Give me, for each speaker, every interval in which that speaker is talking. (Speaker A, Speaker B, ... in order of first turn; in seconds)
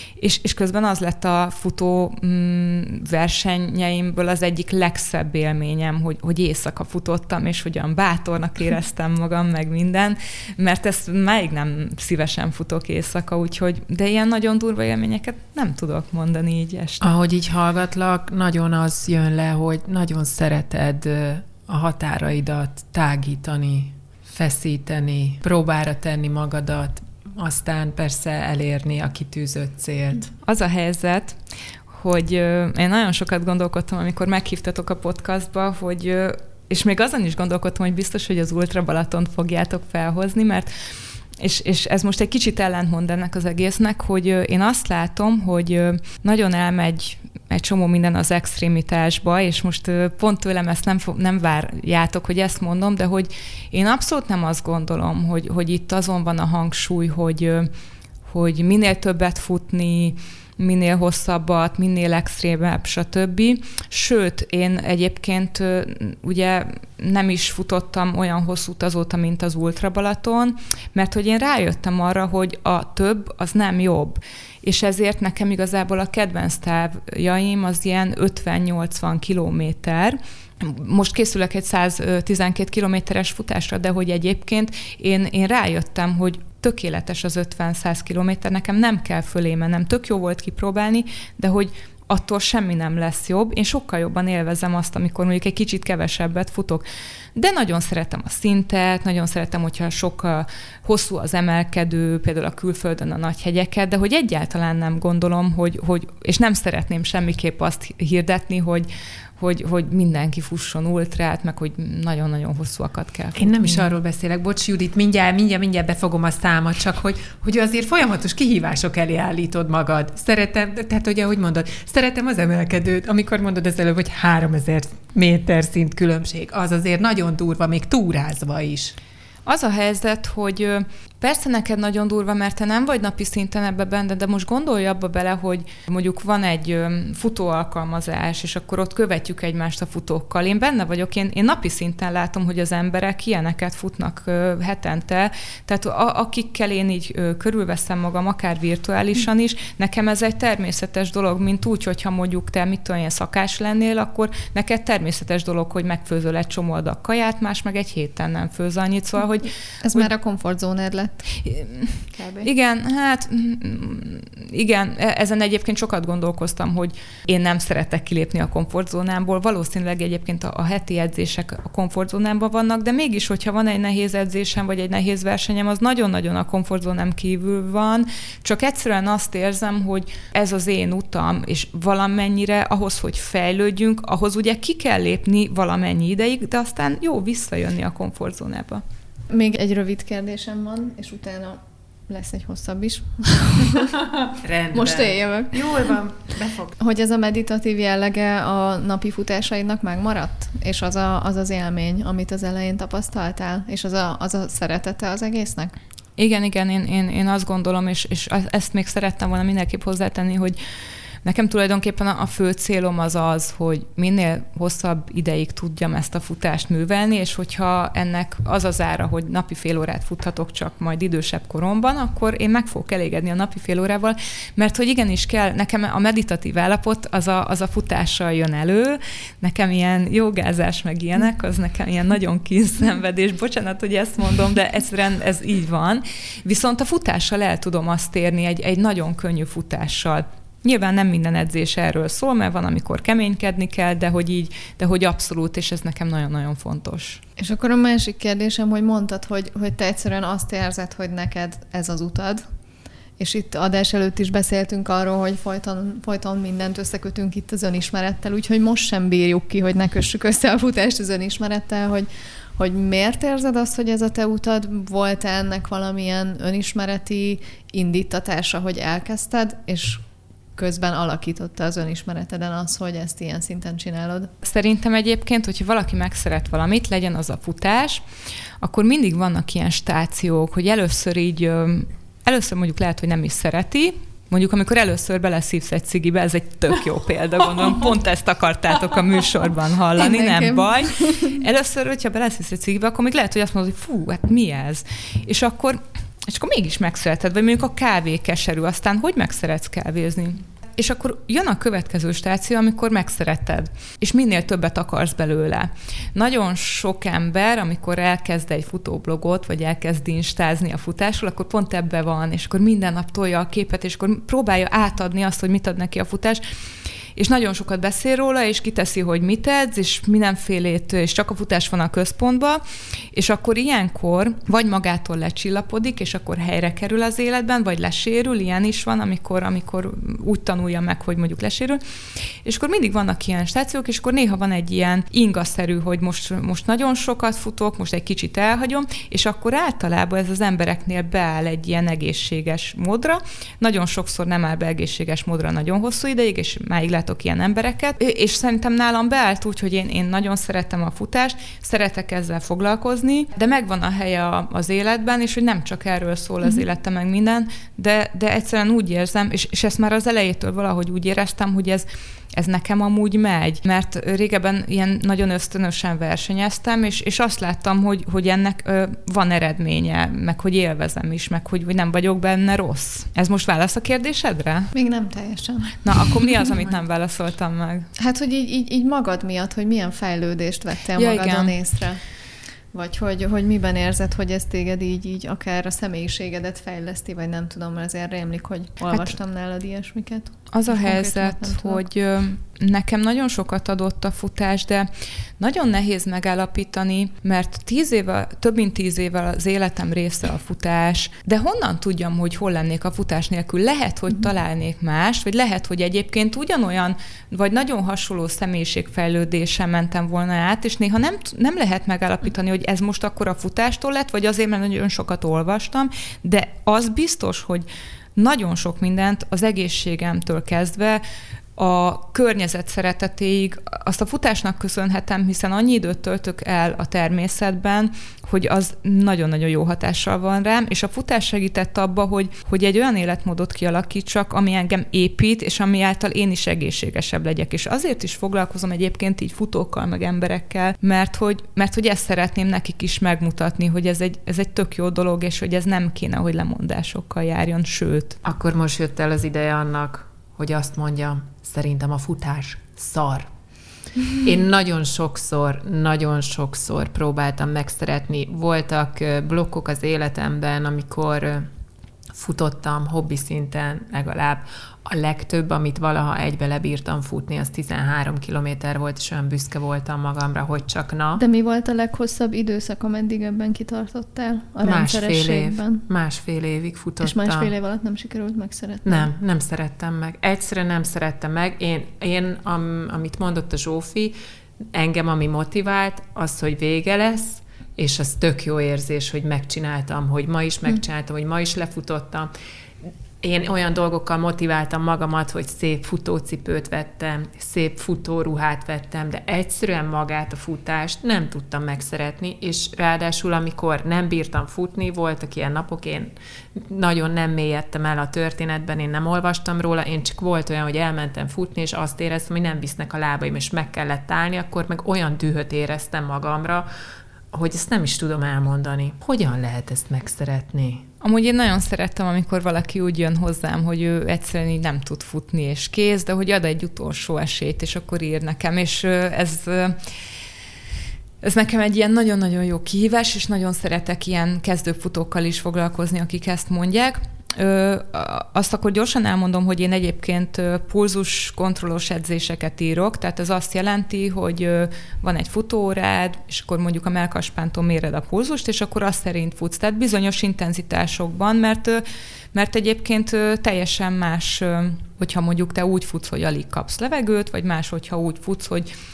Speaker A: 0.2-17.1, 30.4-31.4, 31.9-40.7, 41.4-57.7, 58.3-96.8, 97.4-108.9, 109.4-113.9, 129.5-160.1, 161.5-188.8, 206.2-210.6, 211.2-247.2, 274.4-278.1, 278.6-316.4, 317.2-322.6, 323.1-331.8, 332.4-374.7, 375.8-377.9, 381.0-381.6, 390.5-394.9, 395.4-421.0, 421.6-448.2, 521.0-529.8, 531.2-558.7
Speaker B: 17.0-30.3, 113.4-129.0, 194.4-196.8, 448.2-453.3, 454.2-461.5, 462.1-471.2, 474.6-477.5, 478.9-484.2, 484.7-492.3, 493.2-516.7, 517.3-520.9
Speaker C: 159.8-161.3, 162.2-162.5, 189.3-194.0, 194.7-195.7, 196.8-205.8, 247.4-252.4, 253.2-270.0, 270.6-274.3, 290.0-291.4, 374.7-376.5, 378.0-382.0, 382.7-391.8, 471.2-475.8, 477.0-479.1